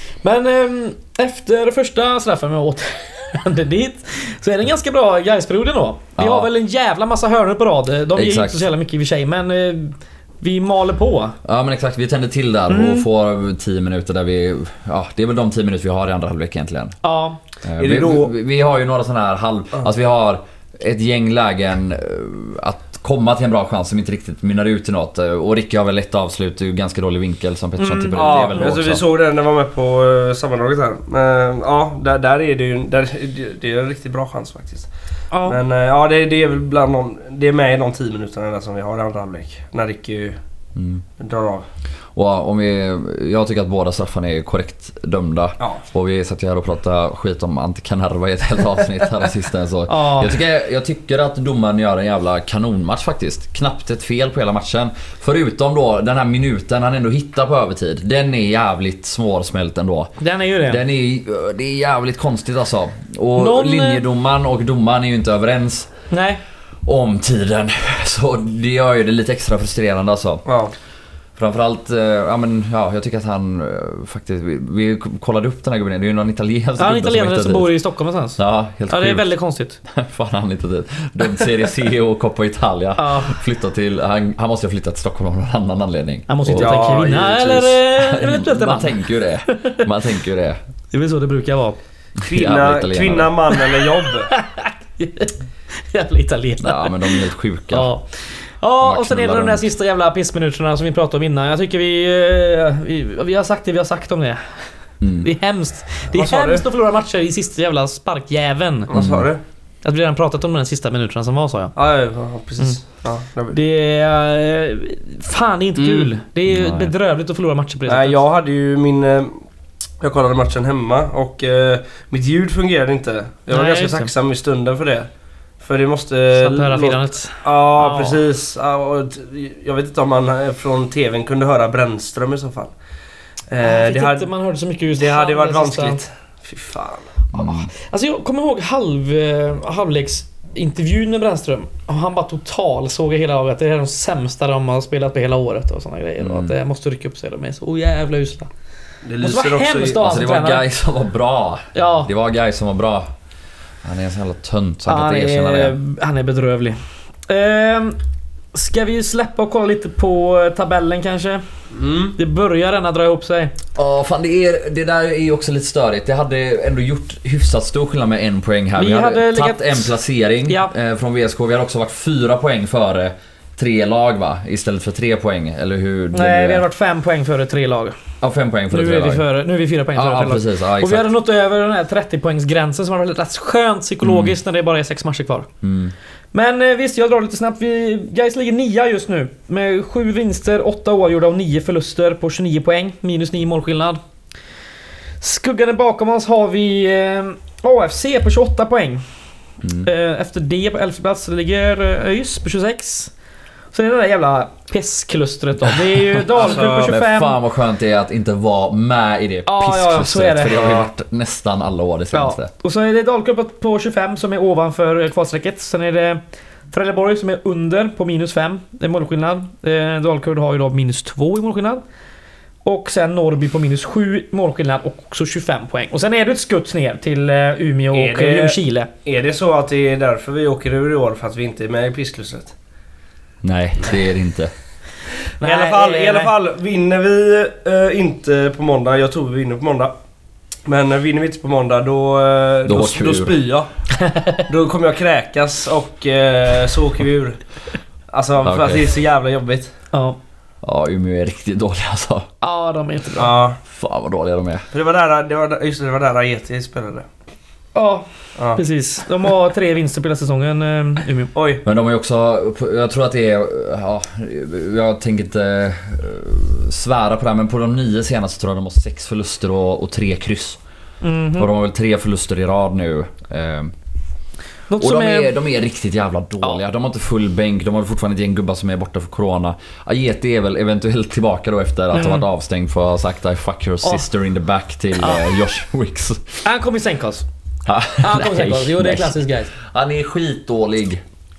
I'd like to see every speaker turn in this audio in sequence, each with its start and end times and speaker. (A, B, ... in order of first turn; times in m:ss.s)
0:00.2-0:11.3 A
0:06.2-0:06.5 B
0:08.1-0:08.7 B
0:11.4-0:17.0 B
0:12.7-0:13.1 A
0:17.0-0:17.4 A
0:17.6-0:29.0 B
0:17.8-0:18.3 C
0:27.8-0:28.6 A
0:28.1-0:34.9 C
0:35.3-0:35.6 A
0:35.4-0:40.4 C
0:40.7-0:41.0 B
0:41.2-0:41.6 C
0:42.1-1:00.1 B
0:49.9-0:50.4 A
1:00.2-1:00.8 A
1:00.6-1:05.9 B
1:03.4-1:04.0 A
1:06.1-1:06.4 A
1:06.8-1:10.4 B
1:10.4-1:10.7 C
1:11.4-1:17.7 B
1:16.8-1:19.8 A
1:18.4-1:19.3 B
1:19.8-1:30.6 B
1:23.0-1:23.4 A
1:26.3-1:29.8 A
1:26.5-1:27.7 C
1:30.9-1:31.8 A
1:32.2-1:33.3 B
1:32.2-1:34.3 C
1:33.5-1:44.4 A
1:36.6-1:37.9 B
1:38.8-1:39.7 B
1:45.0-1:45.3 B
1:45.2-1:48.9 A
1:46.1-1:46.6 C
1:48.9-1:49.4 C
1:48.9-1:49.3 B
1:49.8-1:51.7 A
1:51.8-1:53.6 C
1:53.5-1:58.2 A
1:55.8-1:56.1 C
1:56.5-1:56.9 B
1:57.9-1:59.4 C
2:00.0-2:05.1 C
2:03.5-2:04.1 A
2:05.6-2:12.7 C
2:06.3-2:08.2 A
2:13.5-2:14.3 C
2:13.6-2:16.0 A
2:14.9-2:17.1 C
2:17.3-2:17.7 B
2:17.3-2:28.5 A
2:26.2-2:26.5 B
2:29.0-2:30.0 C
2:29.2-2:30.6 A
2:29.9-2:33.1 B
2:31.7-2:32.1 A
2:33.8-2:35.8 B
2:34.9-2:38.0 A
2:38.5-2:41.4 A
2:41.7-2:42.2 C
2:42.2-2:43.5 A
2:43.8-2:56.6 B
2:48.8-2:49.9 A
2:50.4-2:50.7 A
2:56.1-2:57.9 A
2:58.2-2:59.2 B
2:58.7-3:05.5 A
2:59.9-3:01.1 B
3:04.0-3:04.4 B
3:05.6-3:05.9 B
3:06.3-3:14.0 A
3:15.2-3:19.0 A
3:19.6-3:19.9 B
3:19.8-3:23.1 A
3:23.7-3:27.4 A
3:26.3-3:26.9 C
3:26.8-3:32.5 B
3:29.4-3:30.8 A
3:32.1-3:36.2 A
3:36.7-3:41.8 A
3:42.6-3:48.9 A
3:47.9-3:52.5 C
3:53.4-3:54.5 B
3:55.4-3:56.3 A
3:55.4-3:59.9 C
4:00.6-4:03.7 C
4:02.6-4:03.4 B
4:04.0-4:04.4 A
4:04.4-4:07.4 C
4:08.1-4:09.7 C
4:08.4-4:08.9 B
4:10.6-4:12.3 B
4:12.4-4:13.4 A
4:13.2-4:13.6 C
4:13.7-4:14.6 B
4:14.7-4:17.0 C
4:17.7-4:21.3 A
4:18.4-4:18.6 C
4:21.3-4:21.6 C
4:21.6-4:30.6 B
4:31.0-4:31.5 A
4:31.4-4:33.7 B
4:34.7-4:35.3 A
4:34.8-4:46.4 B
4:41.9-4:42.2 A
4:46.4-4:47.2 A
4:47.6-4:51.0 B
4:48.0-4:49.5 A